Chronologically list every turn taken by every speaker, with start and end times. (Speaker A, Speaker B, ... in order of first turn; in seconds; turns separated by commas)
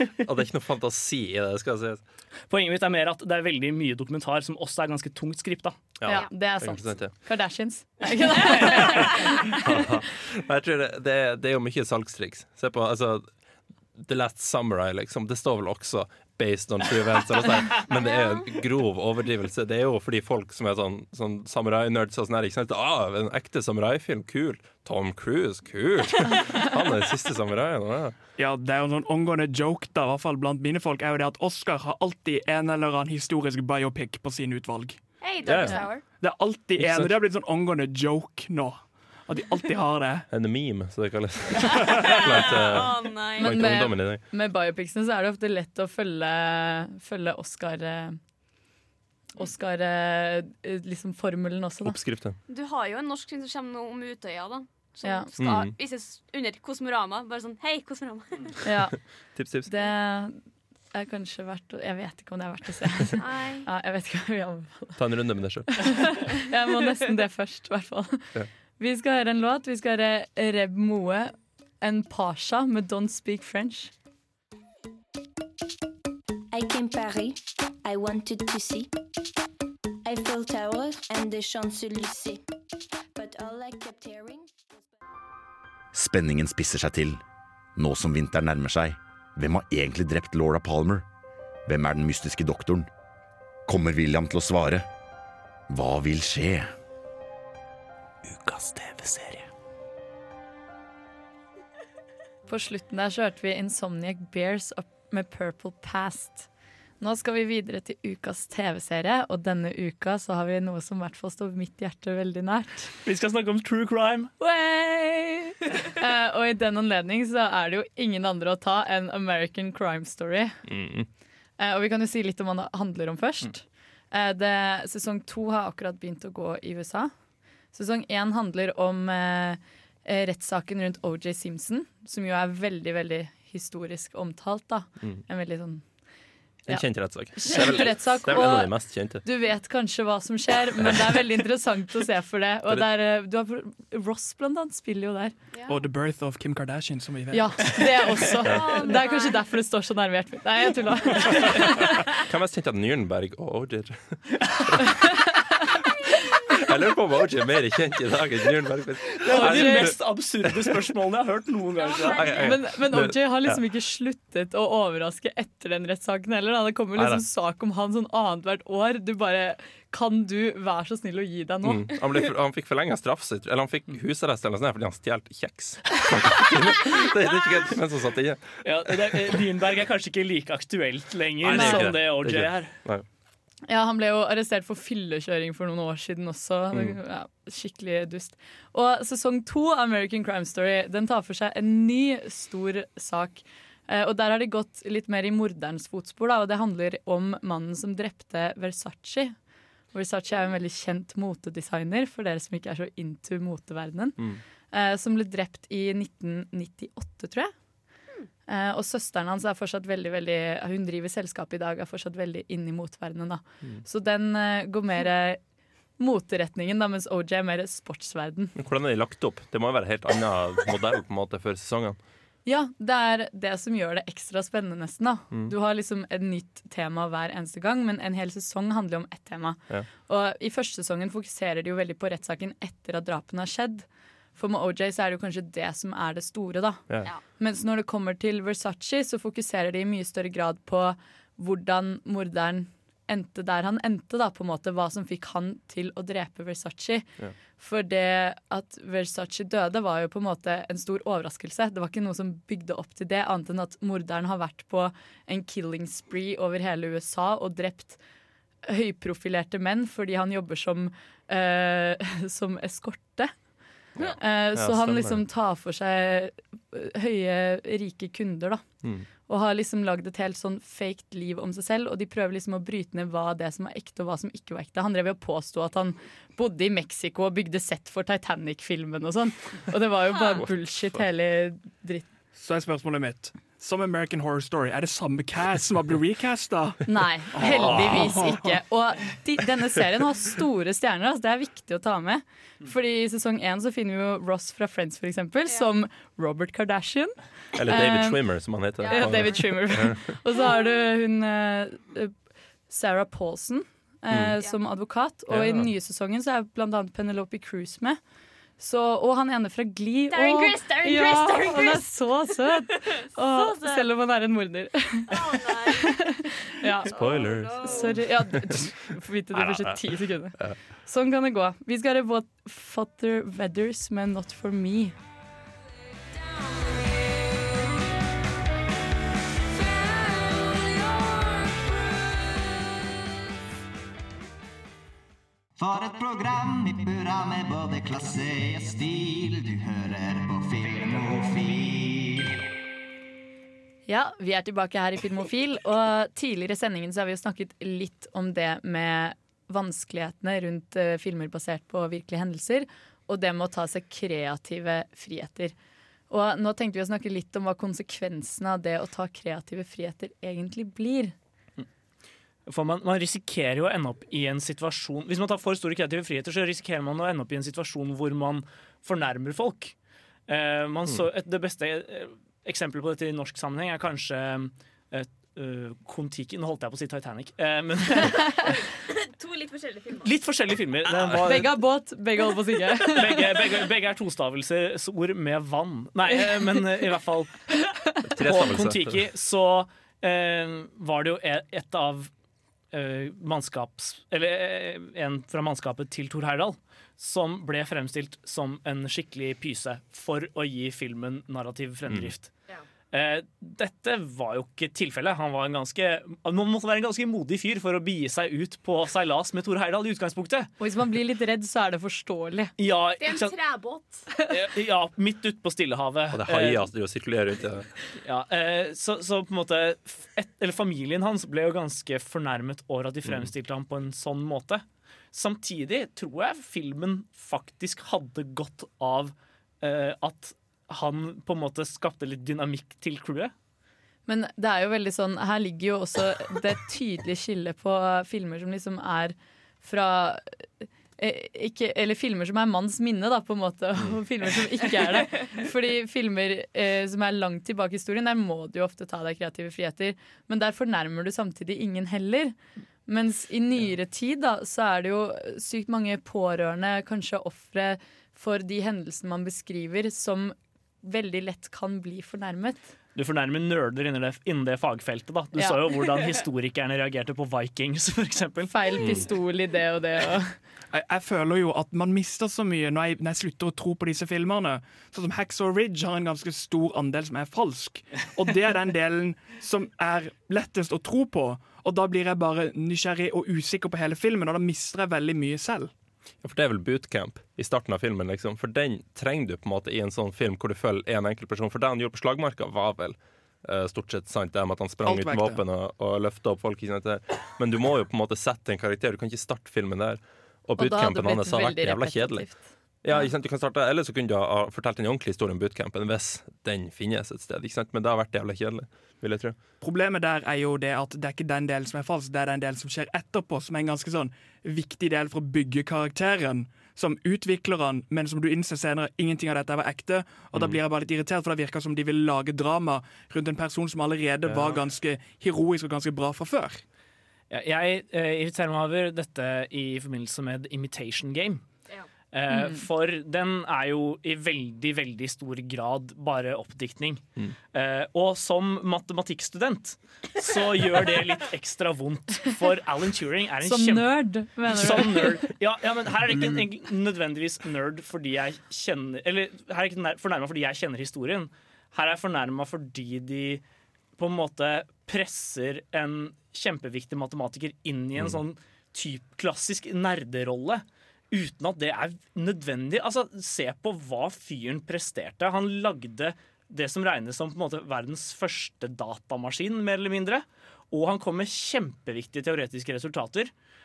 Speaker A: 0.2-2.0, Speaker B: 2.5-5.8, Speaker A: 6.0-7.1, Speaker C: 6.0-9.6, Speaker A: 8.6-8.9, Speaker A: 9.6-13.3, Speaker A: 14.0-28.1, Speaker D: 17.9-18.6, Speaker E: 28.4-35.0, Speaker D: 35.2-36.1, Speaker A: 35.4-35.9, Speaker C: 35.6-35.9, Speaker E: 36.1-40.3, Speaker A: 36.8-37.1, Speaker A: 40.3-44.2, Speaker D: 42.6-43.6, Speaker C: 43.4-48.2, Speaker C: 49.4-52.0, Speaker A: 51.8-52.4, Speaker D: 52.5-58.5, Speaker C: 55.0-55.3, Speaker A: 55.4-55.7, Speaker C: 58.6-60.4, Speaker A: 59.3-59.7, Speaker C: 60.9-65.0, Speaker D: 63.2-63.7, Speaker A: 65.0-66.2, Speaker C: 65.8-73.9, Speaker F: 76.5-78.9, Speaker F: 80.0-82.4, Speaker F: 83.2-84.5, Speaker G: 85.9-87.2, Speaker G: 87.8-91.0, Speaker G: 91.7-92.9, Speaker G: 93.7-94.8, Speaker G: 95.7-96.7, Speaker A: 98.5-99.3, Speaker B: 98.5-99.3, Speaker C: 102.5-106.5, Speaker C: 107.0-112.9, Speaker B: 113.0-114.3, Speaker C: 114.4-120.6, Speaker A: 120.7-121.1, Speaker C: 121.6-127.1, Speaker C: 127.7-135.8, Speaker A: 136.7-139.2, Speaker C: 136.7-145.3, Speaker D: 145.5-145.8, Speaker E: 145.7-147.8, Speaker C: 147.3-151.6, Speaker A: 148.4-148.8, Speaker D: 148.5-149.4, Speaker A: 152.2-154.8, Speaker C: 154.9-155.3, Speaker A: 156.5-160.7, Speaker B: 159.2-162.4, Speaker C: 159.4-159.9, Speaker D: 161.8-162.5, Speaker A: 162.0-163.6, Speaker C: 162.4-171.9, Speaker A: 166.9-167.2, Speaker A: 171.6-179.3, Speaker B: 178.6-182.7, Speaker A: 181.4-183.0, Speaker C: 181.5-181.9, Speaker C: 183.7-199.3, Speaker A: 186.7-187.0, Speaker C: 199.9-207.5, Speaker C: 208.5-215.4, Speaker C: 216.0-218.5, Speaker A: 218.5-222.0, Speaker C: 222.4-258.0, Speaker C: 258.6-263.3, Speaker A: 263.9-265.2, Speaker C: 264.1-268.6, Speaker C: 269.3-282.1, Speaker D: 280.1-280.4, Speaker E: 282.3-288.6, Speaker C: 286.9-297.1, Speaker A: 287.5-288.0, Speaker A: 297.6-300.1, Speaker C: 297.7-298.2, Speaker D: 298.8-299.6, Speaker C: 298.8-302.1, Speaker C: 302.7-308.0, Speaker A: 304.1-304.4, Speaker A: 305.3-305.7, Speaker C: 308.6-315.1, Speaker D: 310.1-311.9, Speaker D: 312.5-313.9, Speaker D: 315.1-316.1, Speaker C: 315.8-325.0, Speaker D: 316.9-318.0, Speaker A: 316.9-318.7, Speaker A: 319.3-319.8, Speaker H: 335.6-342.4, Speaker C: 343.9-355.5, Speaker C: 356.1-361.1, Speaker B: 362.5-369.7, Speaker B: 370.3-378.2, Speaker D: 378.4-380.1, Speaker B: 380.0-381.5, Speaker C: 381.2-383.4, Speaker B: 382.9-387.3, Speaker A: 388.1-389.0, Speaker B: 388.2-392.1, Speaker B: 392.7-402.3, Speaker B: 402.9-410.5, Speaker C: 410.6-412.5, Speaker B: 412.6-413.4, Speaker D: 413.0-414.1, Speaker B: 414.3-416.7, Speaker A: 416.1-417.7, Speaker B: 418.0-433.3, Speaker C: 434.1-452.3, Speaker C: 452.9-462.7, Speaker B: 462.9-468.5, Speaker C: 468.5-470.4, Speaker A: 468.8-469.1, Speaker E: 470.7-485.7, Speaker A: 486.2-502.3, Speaker E: 494.8-495.4, Speaker C: 500.6-502.4, Speaker A: 502.8-509.4, Speaker E: 509.6-526.6, Speaker A: 520.3-520.6, Speaker A: 524.2-524.6, Speaker B: 527.3-531.4, Speaker B: 532.1-543.9, Speaker C: 532.3-532.6, Speaker C: 543.4-545.2, Speaker B: 544.4-553.4, Speaker B: 554.0-573.3